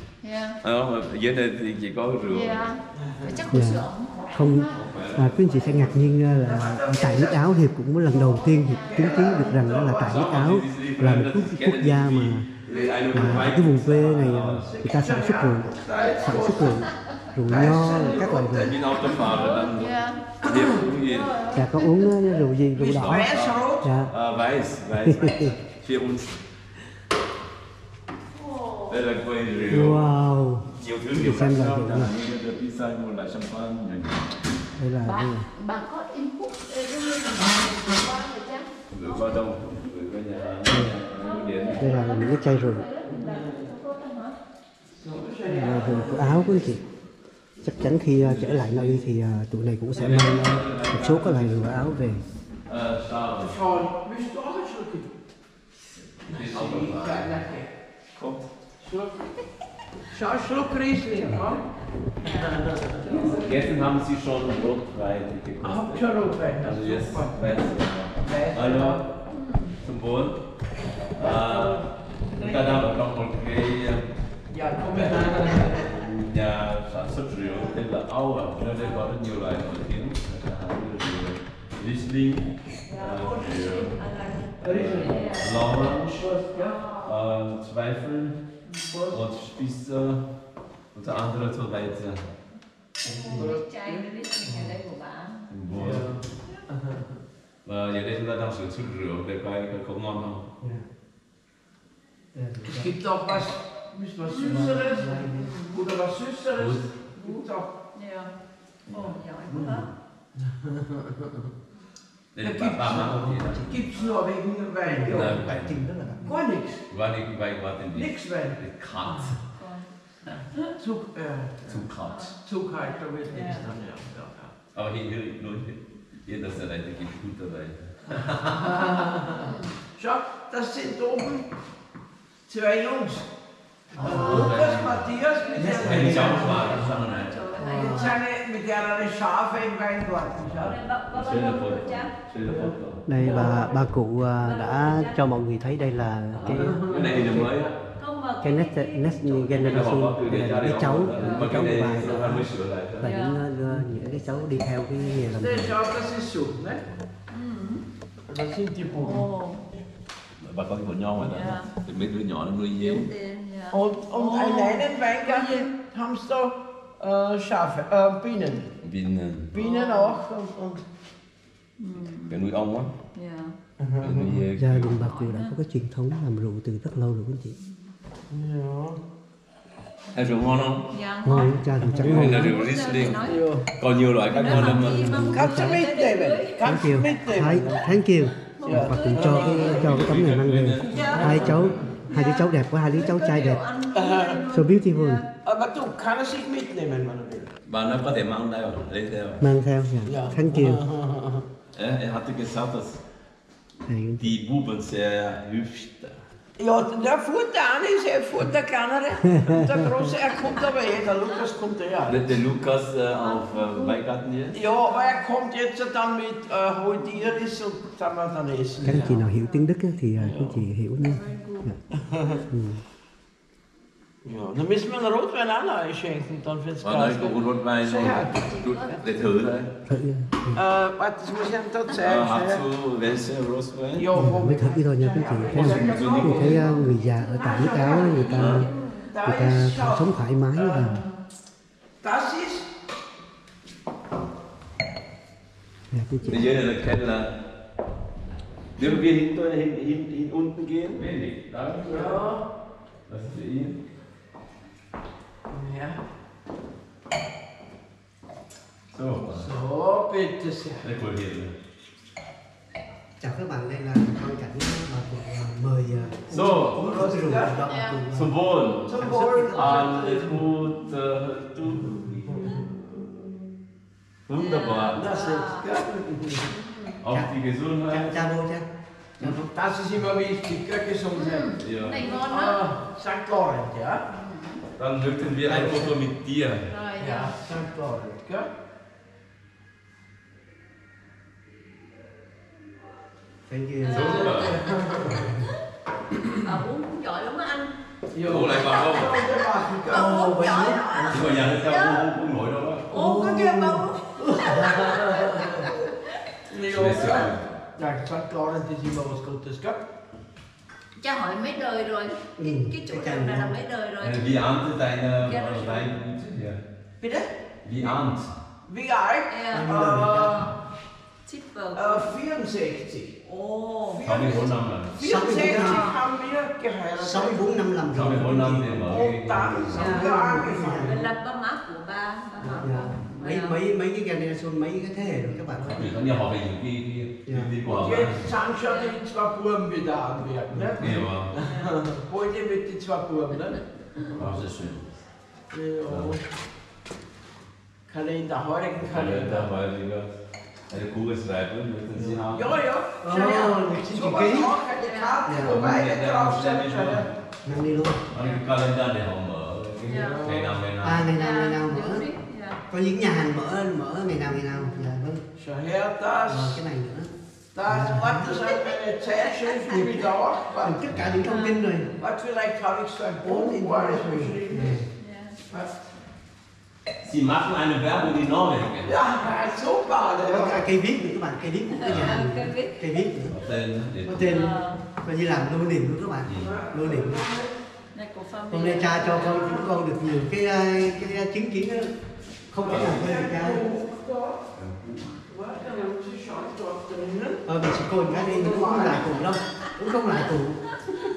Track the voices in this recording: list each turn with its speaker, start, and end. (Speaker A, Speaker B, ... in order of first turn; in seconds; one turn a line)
Speaker A: 0.2-0.6
Speaker B: 0.6-2.7
Speaker A: 2.3-4.8
Speaker C: 2.9-3.6
Speaker D: 3.5-12.5
Speaker B: 4.7-6.1
Speaker C: 6.4-7.5
Speaker A: 8.1-9.4
Speaker C: 8.7-10.3
Speaker B: 10.0-14.7
Speaker C: 12.7-13.5
Speaker D: 13.1-18.7
Speaker C: 14.6-16.9
Speaker C: 17.5-19.2
Speaker B: 18.4-21.4
Speaker A: 19.1-22.4
Speaker C: 20.4-20.8
Speaker D: 21.5-24.1
Speaker C: 22.8-23.9
Speaker B: 22.8-26.4
Speaker D: 25.0-25.6
Speaker A: 28.3-29.0
Speaker B: 28.9-30.1
Speaker D: 29.7-32.2
Speaker B: 30.7-34.3
Speaker D: 34.8-35.5
Speaker A: 35.0-39.5
Speaker B: 38.9-42.1
Speaker D: 40.7-40.9
Speaker A: 41.1-44.4
Speaker D: 41.8-42.9
Speaker C: 43.1-43.7
Speaker C: 44.9-46.8
Speaker D: 45.5-46.8
Speaker D: 47.6-52.2
Speaker B: 48.1-49.1
Speaker B: 49.9-53.6
Speaker C: 53.4-55.1
Speaker B: 56.0-57.4
Speaker C: 56.2-57.7
Speaker B: 58.1-58.5
Speaker C: 58.8-59.2
Speaker C: 60.1-61.6
Speaker C: 62.2-63.5
Speaker A: 62.2-63.8
Speaker B: 63.0-69.0
Speaker C: 65.6-67.6
Speaker C: 68.2-69.1
Speaker A: 69.3-69.8
Speaker B: 69.8-70.4
Speaker B: 71.2-71.8
Speaker C: 71.2-72.9
Speaker B: 72.3-74.1
Speaker C: 74.5-76.0
Speaker B: 74.8-84.0
Speaker A: 82.8-87.2
Speaker B: 84.6-88.4
Speaker C: 84.6-85.2
Speaker A: 88.7-89.0
Speaker C: 88.8-89.2
Speaker B: 89.1-90.3
Speaker B: 90.9-92.3
Speaker D: 93.1-93.5
Speaker A: 93.1-95.5
Speaker C: 93.3-94.1
Speaker D: 94.5-94.8
Speaker B: 95.5-96.1
Speaker C: 95.7-97.1
Speaker D: 95.8-96.1
Speaker B: 97.7-100.5
Speaker D: 100.6-100.9
Speaker D: 102.3-103.0
Speaker C: 102.7-107.7
Speaker A: 104.3-104.7
Speaker D: 104.4-105.5
Speaker A: 105.3-105.8
Speaker B: 106.6-106.9
Speaker A: 107.2-108.3
Speaker A: 108.9-109.9
Speaker C: 110.5-111.4
Speaker B: 112.3-113.8
Speaker C: 112.4-115.5
Speaker D: 112.9-113.8
Speaker D: 114.8-116.2
Speaker B: 115.0-115.8
Speaker C: 116.2-116.8
Speaker B: 116.9-119.4
Speaker C: 117.9-119.4
Speaker A: 119.5-120.8
Speaker C: 120.7-121.9
Speaker B: 121.7-122.3
Speaker A: 122.0-123.7
Speaker C: 122.4-124.5
Speaker B: 124.7-128.8
Speaker C: 128.4-131.5
Speaker A: 129.3-129.8
Speaker C: 132.5-133.3
Speaker D: 133.9-134.5
Speaker C: 133.9-136.8
Speaker B: 134.0-137.5
Speaker A: 135.3-138.2
Speaker D: 135.6-136.9
Speaker D: 137.6-138.2
Speaker C: 137.7-140.8
Speaker A: 140.6-142.2
Speaker B: 141.1-143.1
Speaker C: 142.5-142.7
Speaker D: 143.1-147.5
Speaker A: 143.2-145.3
Speaker B: 146.3-147.8
Speaker C: 146.5-147.4
Speaker A: 148.0-149.9
Speaker D: 148.4-152.5
Speaker B: 149.2-153.1
Speaker A: 151.0-152.3
Speaker D: 153.0-155.8
Speaker A: 153.0-153.5
Speaker A: 154.1-154.7
Speaker C: 155.2-156.8
Speaker A: 157.3-157.8
Speaker C: 158.3-159.3
Speaker A: 159.0-159.7
Speaker B: 160.4-163.1
Speaker A: 161.2-161.7
Speaker A: 162.8-165.7
Speaker C: 163.7-168.7
Speaker B: 168.8-169.5
Speaker C: 169.5-170.8
Speaker A: 169.6-170.2
Speaker A: 171.8-172.4
Speaker B: 172.2-172.9
Speaker A: 173.1-173.6
Speaker C: 173.8-174.4
Speaker B: 174.0-175.0
Speaker D: 174.6-177.6
Speaker A: 175.0-175.6
Speaker C: 178.3-179.0
Speaker B: 180.1-180.9
Speaker A: 180.9-181.6
Speaker D: 181.2-182.6
Speaker C: 181.8-182.1
Speaker B: 181.9-185.3
Speaker A: 182.2-183.6
Speaker C: 183.2-183.7
Speaker A: 184.3-187.0
Speaker D: 184.4-185.9
Speaker C: 185.3-187.9
Speaker D: 186.6-193.7
Speaker A: 188.4-189.9
Speaker C: 188.6-189.8
Speaker B: 189.2-191.7
Speaker A: 190.8-195.3
Speaker C: 190.9-191.9
Speaker C: 193.9-194.4
Speaker D: 194.5-195.2
Speaker C: 195.4-197.5
Speaker B: 197.7-199.5
Speaker D: 199.4-200.8
Speaker C: 200.1-201.5
Speaker B: 201.7-203.0
Speaker D: 203.8-204.3
Speaker B: 204.2-206.2
Speaker C: 206.6-212.4
Speaker D: 209.3-210.1
Speaker B: 212.1-214.6
Speaker A: 213.2-214.0
Speaker C: 214.5-219.3
Speaker A: 214.6-215.2
Speaker D: 218.8-221.8
Speaker A: 218.9-219.7
Speaker C: 220.2-220.7
Speaker A: 221.0-221.8
Speaker C: 221.9-222.4
Speaker D: 222.5-222.8
Speaker C: 224.2-228.4
Speaker B: 226.8-229.7
Speaker A: 228.3-229.1
Speaker D: 229.9-230.6
Speaker C: 230.5-232.6
Speaker B: 232.0-234.1
Speaker C: 234.0-236.8
Speaker D: 234.2-238.7
Speaker B: 235.5-236.7
Speaker A: 236.0-239.1
Speaker C: 237.3-238.5
Speaker B: 238.3-238.7
Speaker C: 239.1-241.0
Speaker D: 239.2-241.1
Speaker A: 240.8-241.1
Speaker C: 242.0-242.7
Speaker D: 245.9-246.6
Speaker B: 246.3-247.3
Speaker B: 248.8-252.2
Speaker C: 251.9-252.5
Speaker B: 253.1-253.8
Speaker C: 255.5-256.0
Speaker B: 258.9-259.5
Speaker C: 259.3-260.9
Speaker B: 260.8-261.5
Speaker D: 263.2-268.3
Speaker B: 266.3-266.9
Speaker C: 266.8-267.6
Speaker A: 267.6-268.0
Speaker B: 268.1-272.6
Speaker C: 268.9-270.5
Speaker D: 268.9-269.8
Speaker C: 272.2-273.4
Speaker B: 274.3-275.1
Speaker A: 274.4-275.7
Speaker C: 274.8-276.5
Speaker A: 276.5-277.0
Speaker B: 277.0-278.3
Speaker D: 277.9-278.7
Speaker C: 279.2-284.1
Speaker A: 281.1-282.6
Speaker B: 281.6-282.1
Speaker A: 284.1-284.6
Speaker B: 284.8-286.7
Speaker D: 285.4-286.0
Speaker A: 286.7-287.4
Speaker C: 287.0-288.5
Speaker D: 293.5-294.4
Speaker A: 293.8-294.6
Speaker B: 293.9-294.6
Speaker C: 294.0-295.4
Speaker D: 295.1-295.4
Speaker A: 296.1-297.8
Speaker C: 298.1-300.4
Speaker B: 298.3-299.2
Speaker D: 299.9-301.6
Speaker A: 299.9-302.1
Speaker B: 301.1-302.9
Speaker A: 302.9-306.1
Speaker D: 302.9-304.8
Speaker C: 304.2-305.8
Speaker C: 306.5-309.8
Speaker B: 306.6-307.6
Speaker A: 311.0-314.2
Speaker D: 312.4-313.6
Speaker B: 314.0-316.6
Speaker A: 315.2-315.9
Speaker C: 317.0-318.0
Speaker B: 317.6-318.3
Speaker C: 318.6-320.5
Speaker A: 319.3-320.5
Speaker D: 319.5-320.4
Speaker A: 321.2-322.1
Speaker C: 321.7-327.6
Speaker A: 323.2-324.1
Speaker B: 324.0-325.0
Speaker D: 325.0-325.9
Speaker A: 325.4-326.0
Speaker D: 327.0-328.9
Speaker B: 327.9-330.0
Speaker C: 328.8-331.1
Speaker D: 329.6-331.0
Speaker A: 329.8-333.6
Speaker C: 332.4-332.7
Speaker D: 332.6-335.9
Speaker C: 335.6-335.9
Speaker B: 335.7-338.2
Speaker D: 337.3-337.5
Speaker C: 337.7-344.4
Speaker A: 338.6-339.0
Speaker D: 340.5-340.8
Speaker B: 340.8-341.3
Speaker A: 341.4-341.8
Speaker B: 344.1-345.1
Speaker C: 345.5-346.2
Speaker B: 345.9-346.2
Speaker C: 347.9-349.5
Speaker B: 348.8-350.1
Speaker B: 350.7-352.6
Speaker C: 352.0-357.1
Speaker D: 353.0-354.6
Speaker A: 354.8-355.3
Speaker D: 355.3-355.6
Speaker B: 355.4-357.5
Speaker D: 357.4-358.0
Speaker B: 358.1-361.1
Speaker A: 358.1-358.4
Speaker C: 359.9-360.6
Speaker A: 359.9-360.2
Speaker D: 360.8-362.1
Speaker A: 361.1-362.6
Speaker D: 362.7-365.2
Speaker A: 364.6-364.9
Speaker C: 365.4-366.6
Speaker D: 366.3-367.1
Speaker C: 367.5-370.9
Speaker D: 367.7-368.3
Speaker A: 368.4-370.0
Speaker D: 370.6-371.9
Speaker A: 371.2-371.6
Speaker C: 372.0-374.9
Speaker D: 373.2-374.9
Speaker A: 375.0-375.4
Speaker C: 375.5-375.9
Speaker B: 377.0-378.9
Speaker C: 378.9-380.6
Speaker D: 380.3-383.4
Speaker A: 381.8-382.9
Speaker B: 383.3-384.5
Speaker D: 384.1-387.2
Speaker A: 384.1-384.8
Speaker B: 386.2-386.6
Speaker C: 386.3-387.5
Speaker A: 387.9-389.7
Speaker D: 388.5-391.9
Speaker D: 392.5-393.6
Speaker C: 392.6-394.5
Speaker B: 392.7-393.1
Speaker B: 394.6-395.1
Speaker C: 395.2-399.2
Speaker D: 397.5-400.8